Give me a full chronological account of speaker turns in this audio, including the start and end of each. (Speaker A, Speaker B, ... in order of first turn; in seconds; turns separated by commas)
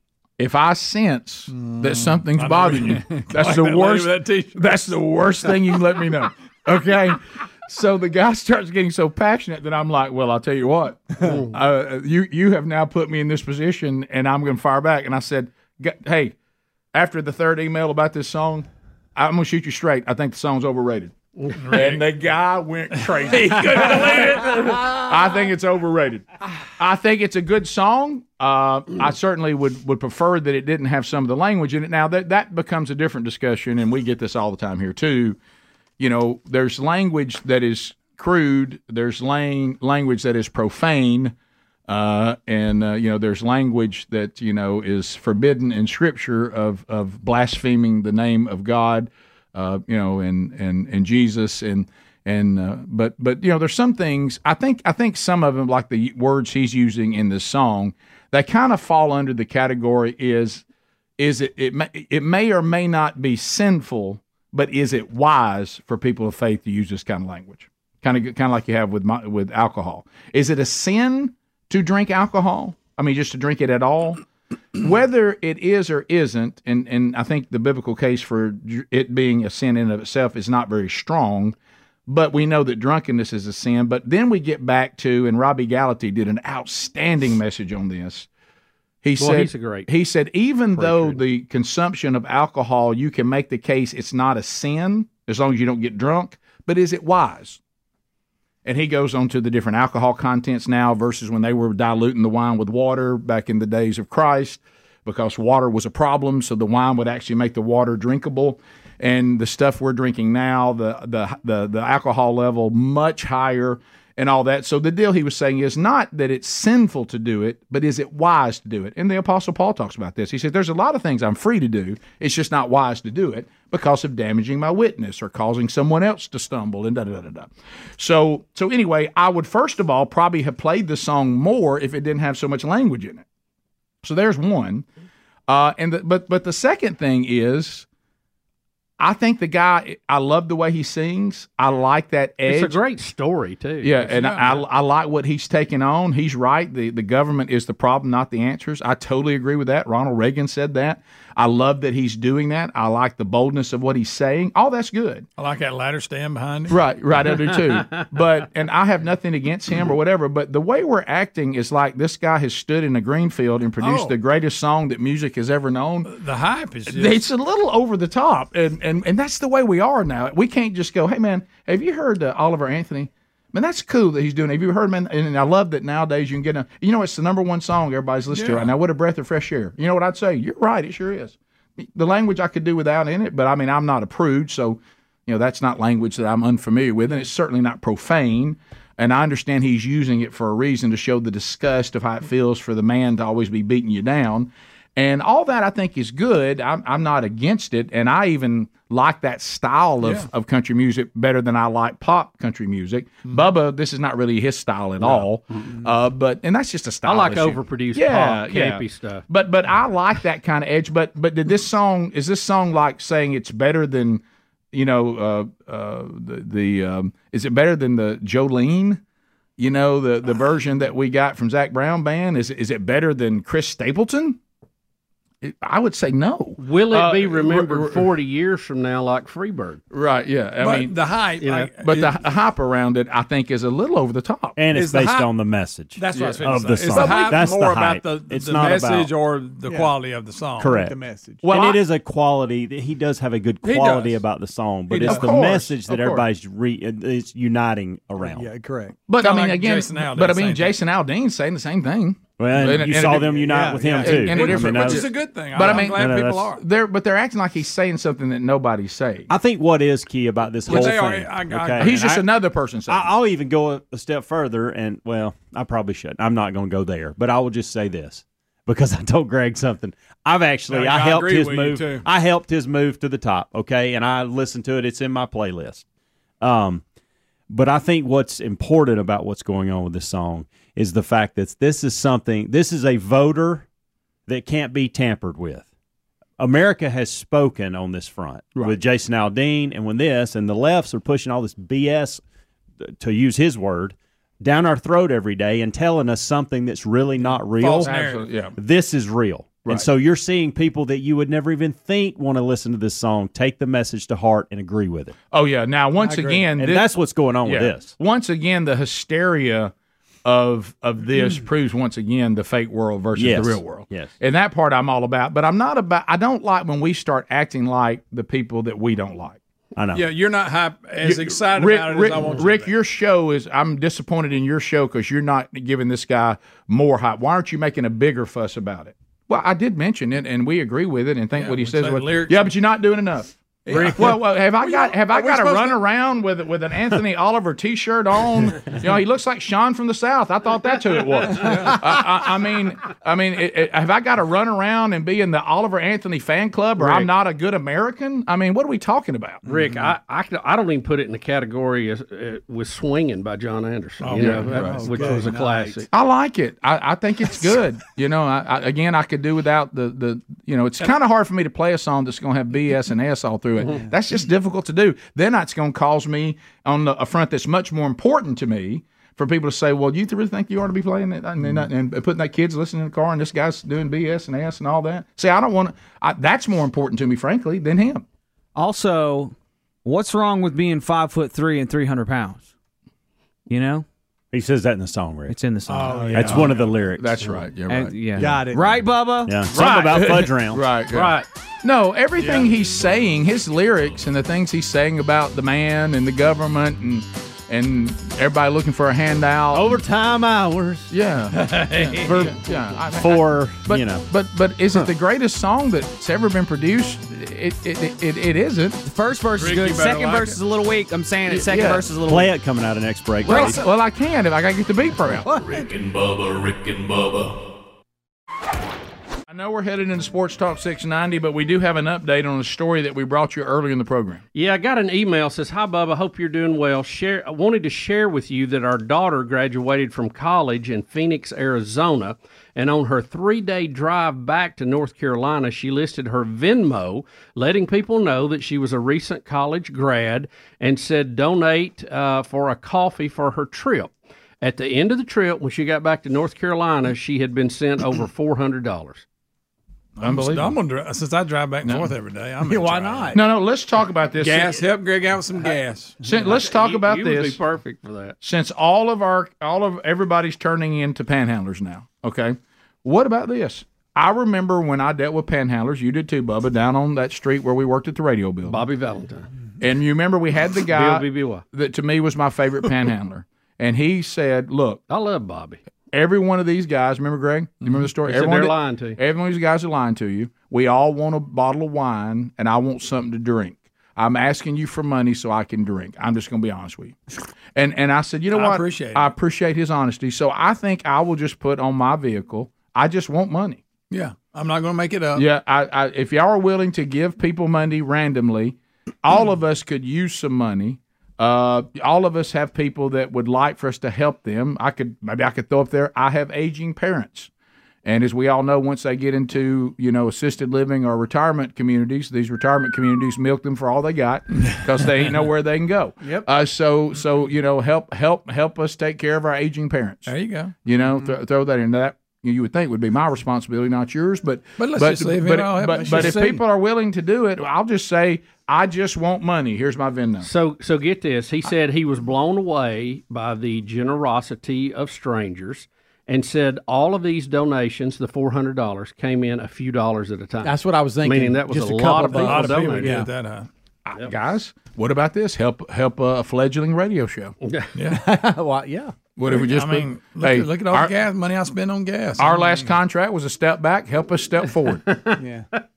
Speaker A: 0.4-16.4, Speaker B: 1.6-4.8, Speaker C: 11.2-11.5, Speaker A: 16.9-21.1, Speaker C: 21.4-21.6, Speaker B: 21.6-22.0, Speaker A: 21.7-35.4, Speaker B: 23.3-24.8, Speaker A: 36.0-41.4, Speaker A: 41.9-60.6, Speaker A: 61.2-74.2, Speaker A: 74.8-81.5, Speaker A: 82.1-88.3, Speaker A: 89.0-97.6, Speaker C: 89.2-89.9, Speaker C: 90.8-91.2, Speaker A: 98.7-133.2, Speaker A: 134.0-134.9, Speaker A: 135.5-137.9, Speaker A: 139.0-142.8, Speaker C: 142.4-144.1, Speaker A: 143.8-155.3, Speaker B: 144.1-144.6, Speaker B: 155.4-156.8, Speaker A: 156.7-166.1, Speaker B: 163.8-164.2, Speaker B: 166.1-167.2, Speaker A: 166.9-214.2, Speaker B: 178.3-178.7, Speaker B: 200.0-200.3, Speaker C: 207.0-209.3, Speaker A: 214.7-219.0, Speaker A: 219.6-224.4, Speaker A: 225.4-228.1, Speaker C: 226.6-229.8, Speaker A: 229.9-231.0, Speaker B: 230.6-232.2, Speaker C: 231.4-231.7, Speaker A: 231.8-234.6, Speaker D: 234.6-239.2, Speaker B: 234.7-235.3, Speaker B: 236.0-240.8, Speaker A: 236.1-237.3, Speaker E: 239.6-239.9, Speaker D: 240.6-248.5, Speaker E: 240.7-241.4, Speaker A: 241.4-241.9, Speaker B: 243.6-244.2, Speaker B: 244.9-245.5, Speaker A: 245.0-246.2, Speaker E: 248.2-249.0, Speaker A: 249.1-259.3, Speaker B: 249.2-250.7, Speaker D: 252.4-256.6, Speaker E: 253.5-254.4, Speaker B: 253.8-256.6, Speaker D: 259.3-262.2, Speaker B: 260.6-262.0, Speaker A: 260.7-261.0, Speaker A: 261.8-263.1, Speaker D: 262.9-275.8, Speaker B: 270.7-272.1, Speaker D: 276.4-276.8, Speaker D: 277.5-283.7, Speaker D: 284.3-285.7, Speaker D: 286.4-292.2, Speaker D: 292.8-305.1, Speaker B: 297.6-298.4, Speaker A: 297.8-298.5, Speaker A: 305.3-306.9, Speaker E: 306.0-306.5, Speaker D: 306.6-308.0, Speaker A: 307.4-309.7, Speaker A: 310.2-319.4, Speaker D: 313.1-314.1, Speaker D: 319.8-320.1, Speaker B: 319.9-322.7, Speaker A: 321.0-349.4, Speaker B: 331.3-332.5, Speaker B: 333.6-335.8, Speaker B: 341.4-341.8, Speaker C: 349.5-355.9, Speaker B: 354.0-355.3, Speaker A: 354.2-354.8, Speaker E: 354.4-355.8, Speaker A: 355.9-378.1, Speaker F: 378.6-382.5, Speaker F: 383.5-383.9, Speaker D: 384.3-387.2, Speaker F: 385.3-386.4, Speaker B: 385.7-386.6, Speaker E: 385.9-386.5, Speaker A: 387.0-388.1, Speaker F: 387.7-389.4, Speaker E: 388.2-388.9, Speaker D: 389.2-390.7, Speaker A: 389.5-399.8, Speaker C: 390.9-391.3, Speaker B: 392.2-392.5, Speaker F: 399.6-400.9, Speaker D: 400.1-400.5, Speaker A: 400.9-408.8, Speaker B: 401.3-402.3, Speaker D: 402.0-402.4, Speaker D: 402.9-404.1, Speaker F: 408.8-412.3, Speaker B: 409.4-410.4, Speaker A: 411.3-412.0, Speaker D: 412.0-413.6, Speaker A: 413.2-415.3, Speaker E: 415.3-415.6, Speaker G: 415.3-417.4, Speaker A: 419.3-424.2, Speaker C: 424.3-449.1, Speaker A: 450.0-450.6, Speaker B: 450.0-453.2, Speaker A: 451.6-451.9, Speaker E: 452.4-453.2, Speaker A: 453.1-454.7, Speaker B: 454.2-456.0, Speaker A: 456.0-457.4, Speaker C: 456.1-458.2, Speaker A: 458.2-468.6, Speaker C: 468.5-469.3, Speaker A: 469.6-474.8, Speaker C: 470.7-471.4, Speaker C: 474.9-475.6, Speaker A: 475.9-487.0, Speaker C: 478.0-479.0, Speaker A: 487.6-493.6, Speaker B: 488.3-489.1, Speaker B: 493.9-495.3, Speaker A: 495.1-507.3, Speaker A: 507.9-530.3, Speaker E: 516.0-516.3, Speaker B: 520.1-520.5, Speaker B: 524.6-526.4, Speaker E: 525.7-526.4, Speaker C: 530.2-543.0, Speaker E: 540.4-543.1, Speaker B: 542.1-543.5, Speaker A: 543.9-547.3, Speaker C: 547.4-547.7, Speaker B: 547.8-548.0, Speaker E: 547.9-548.9, Speaker A: 549.2-550.9, Speaker B: 549.3-552.5, Speaker A: 552.2-555.0, Speaker C: 554.9-555.2, Speaker E: 555.2-555.5